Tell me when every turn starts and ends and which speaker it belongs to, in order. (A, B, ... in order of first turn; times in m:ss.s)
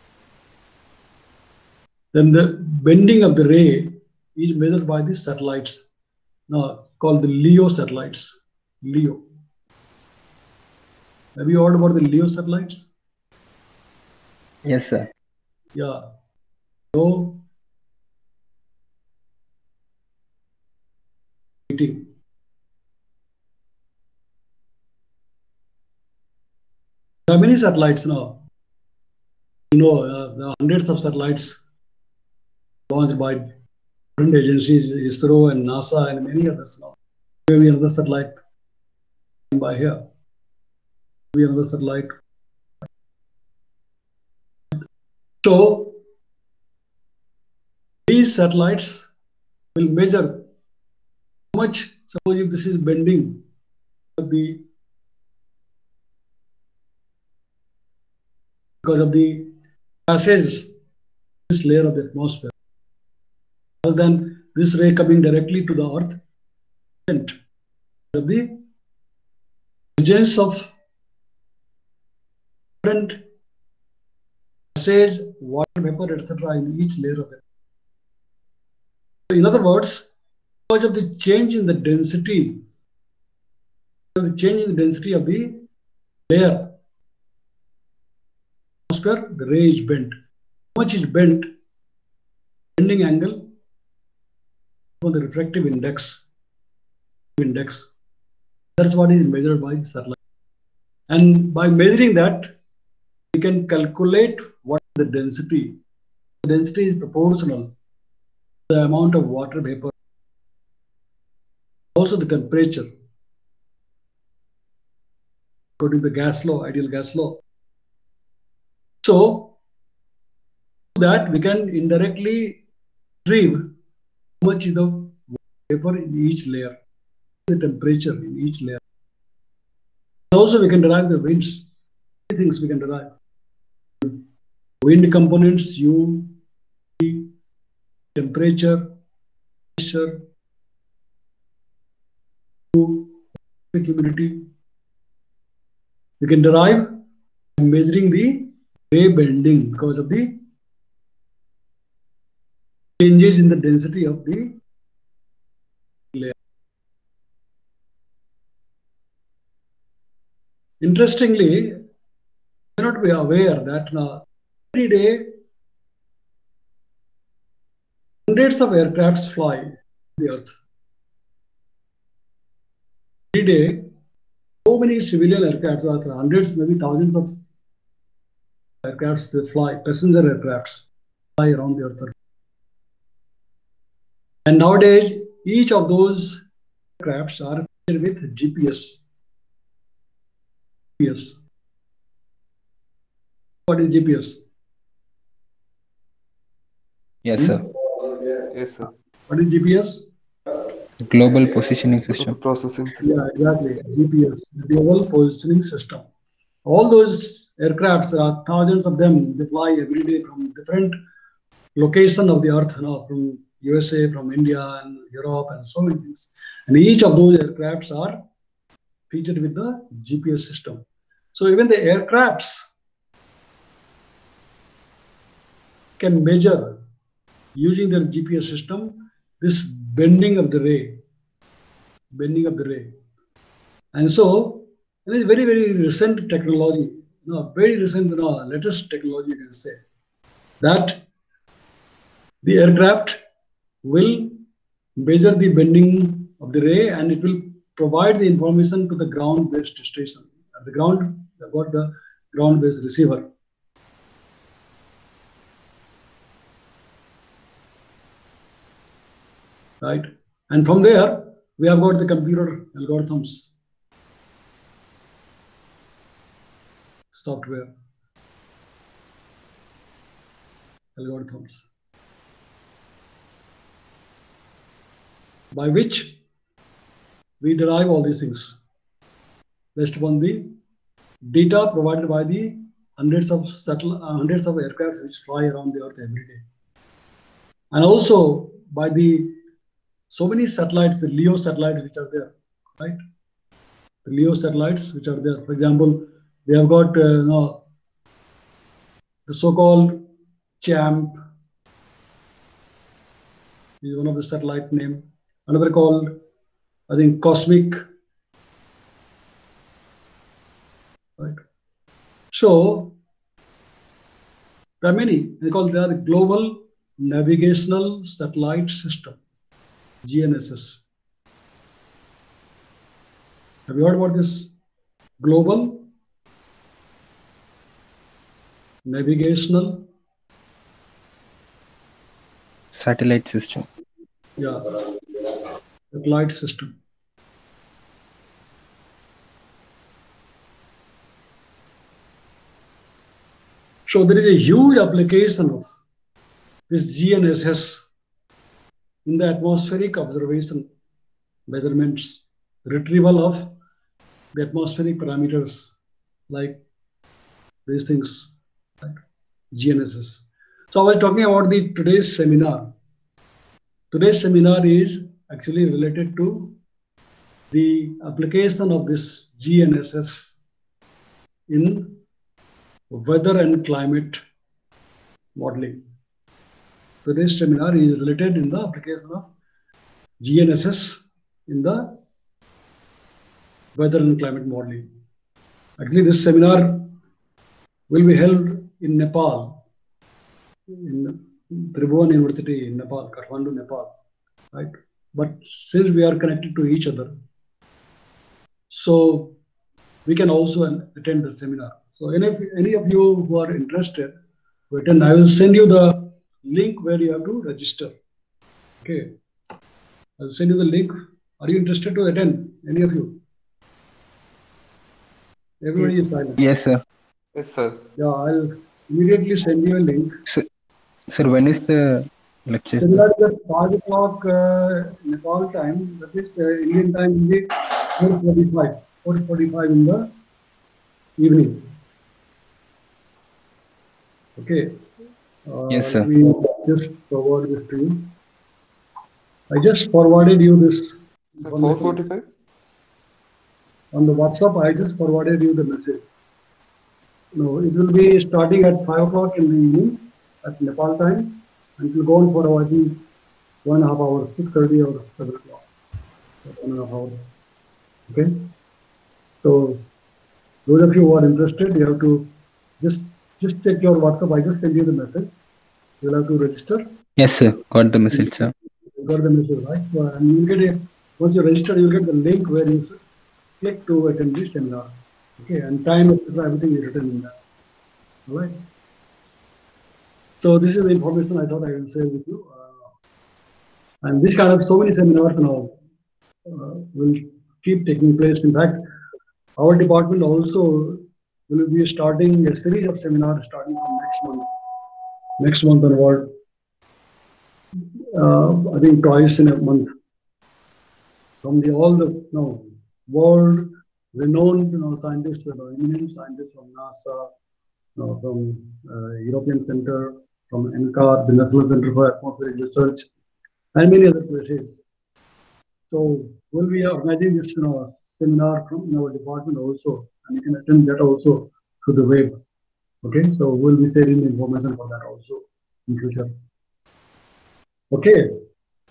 0:02.1-0:05.8 A
0:06.5-0:09.2 A
0:11.4-0:12.9 A
0:14.6-0:15.1 B
0:15.7-0:16.1 A
0:16.9-0:17.4 A
0:21.7-0:22.1 A
0:27.3-0:28.4 A
0:29.7-0:31.6 A
0:32.9-0:33.5 A
0:34.2-0:36.9 A
0:37.5-0:38.4 A
0:39.5-0:40.0 A
0:41.3-0:42.1 A
0:45.4-0:46.0 A
0:48.1-0:49.1 A
0:49.7-0:50.5 A
0:51.5-0:53.4 A
0:54.2-0:54.6 A
0:58.8-0:59.5 A
1:00.1-1:00.7 A
1:01.5-1:02.5 A
1:03.8-1:06.2 A
1:07.1-1:07.3 A
1:08.1-1:08.6 A
1:10.0-1:10.7 A
1:12.8-1:13.2 A
1:14.7-1:17.4 A
1:19.3-1:20.1 A
1:20.7-1:22.6 A
1:24.1-1:25.6 A
1:26.3-1:26.7 A
1:28.9-1:30.1 A
1:30.7-1:31.5 A
1:32.8-1:33.5 A
1:35.0-1:36.2 A
1:37.4-1:37.9 A
1:38.8-1:40.2 A
1:41.1-1:42.5 A
1:43.3-1:45.8 A
1:46.4-1:47.7 A
1:48.7-1:49.9 A
1:51.9-1:52.9 A
1:55.8-1:57.4 A
1:59.0-1:59.5 A
2:01.0-2:02.6 A
2:03.2-2:03.7 A
2:04.4-2:06.8 A
2:07.5-2:08.8 A
2:10.3-2:11.6 A
2:12.3-2:13.1 A
2:14.8-2:16.4 A
2:17.0-2:17.3 A
2:18.2-2:18.9 A
2:19.8-2:20.2 A
2:22.7-2:23.2 A
2:23.7-2:24.4 A
2:26.2-2:26.9 A
2:27.6-2:30.4 A
2:33.0-2:34.6 A
2:40.8-2:41.8 A
2:42.8-2:45.4 A
2:48.3-2:50.6 A
2:53.3-2:53.9 A
2:54.6-2:57.4 A
2:58.8-3:00.8 A
3:01.4-3:02.1 A
3:04.4-3:06.4 A
3:07.0-3:09.0 A
3:11.0-3:11.4 A
3:13.7-3:14.4 A
3:17.2-3:17.6 B
3:18.5-3:18.9 C
3:19.3-3:20.1 A
3:21.0-3:22.4 B
3:22.2-3:23.2 C
3:23.0-3:26.0 A
3:26.6-3:30.9 A
3:31.8-3:38.2 A
3:39.1-3:42.7 A
3:46.0-3:46.8 A
3:47.6-3:51.0 A
3:52.1-3:52.9 A
3:53.9-3:59.8 A
4:00.6-4:01.0 A
4:02.4-4:03.2 A
4:03.8-4:04.4 A
4:05.0-4:13.3 A
4:19.8-4:23.5 A
4:27.1-4:27.7 A
4:31.0-4:31.6 A
4:35.5-4:36.2 A
4:37.4-4:38.6 A
4:39.7-4:40.6 A
4:41.3-4:46.4 A
4:47.7-4:49.4 A
4:50.1-4:53.0 A
4:54.0-4:57.6 A
4:59.2-5:00.0 A
5:00.6-5:01.2 A
5:03.8-5:06.1 A
5:06.9-5:07.8 A
5:12.3-5:12.9 A
5:14.8-5:19.2 A
5:20.0-5:20.8 A
5:23.7-5:24.5 A
5:25.2-5:25.9 A
5:28.8-5:29.9 A
5:32.7-5:33.6 B
5:34.4-5:34.8 A
5:35.9-5:36.7 A
5:43.9-5:45.8 A
5:46.7-5:47.8 A
5:49.0-5:50.7 A
5:51.5-5:53.5 A
5:54.3-5:55.7 A
5:56.3-5:56.6 A
5:57.6-5:59.0 A
5:59.5-6:02.7 A
6:03.9-6:06.6 A
6:07.5-6:10.4 A
6:11.5-6:12.0 A
6:12.9-6:14.2 A
6:15.3-6:15.8 A
6:17.0-6:19.3 A
6:20.2-6:22.0 A
6:23.7-6:24.8 A
6:25.8-6:26.9 A
6:27.9-6:29.6 A
6:30.7-6:33.9 A
6:34.5-6:37.1 A
6:38.7-6:39.4 A
6:40.0-6:44.1 A
6:44.7-6:47.9 A
6:48.8-6:49.1 A
6:50.2-6:53.2 A
6:55.6-6:56.4 A
6:56.4-6:56.8 B
6:57.3-6:57.8 C
6:58.0-7:00.2 A
7:01.1-7:03.0 B
7:02.8-7:10.1 A
7:11.2-7:11.7 A
7:14.4-7:14.8 A
7:15.4-7:18.1 A
7:15.7-7:16.1 B
7:19.5-7:22.0 A
7:21.4-7:22.2 C
7:23.9-7:26.0 A
7:27.3-7:33.0 A
7:33.6-7:35.7 A
7:36.4-7:37.2 A
7:38.1-7:38.5 A
7:39.4-7:39.8 A
7:40.6-7:42.3 A
7:42.8-7:45.3 A
7:46.0-7:46.8 A
7:47.2-7:48.5 B
7:49.0-7:53.0 A
7:53.6-7:57.3 A
7:58.3-7:58.5 A
8:00.4-8:02.9 A
8:04.0-8:05.8 A
8:06.5-8:08.8 A
8:09.6-8:14.5 A
8:15.4-8:16.3 A
8:18.1-8:19.9 A
8:21.4-8:27.3 A
8:28.0-8:33.1 A
8:33.7-8:34.8 A
8:35.9-8:42.4 A
8:43.0-8:46.3 A
8:47.9-8:48.4 A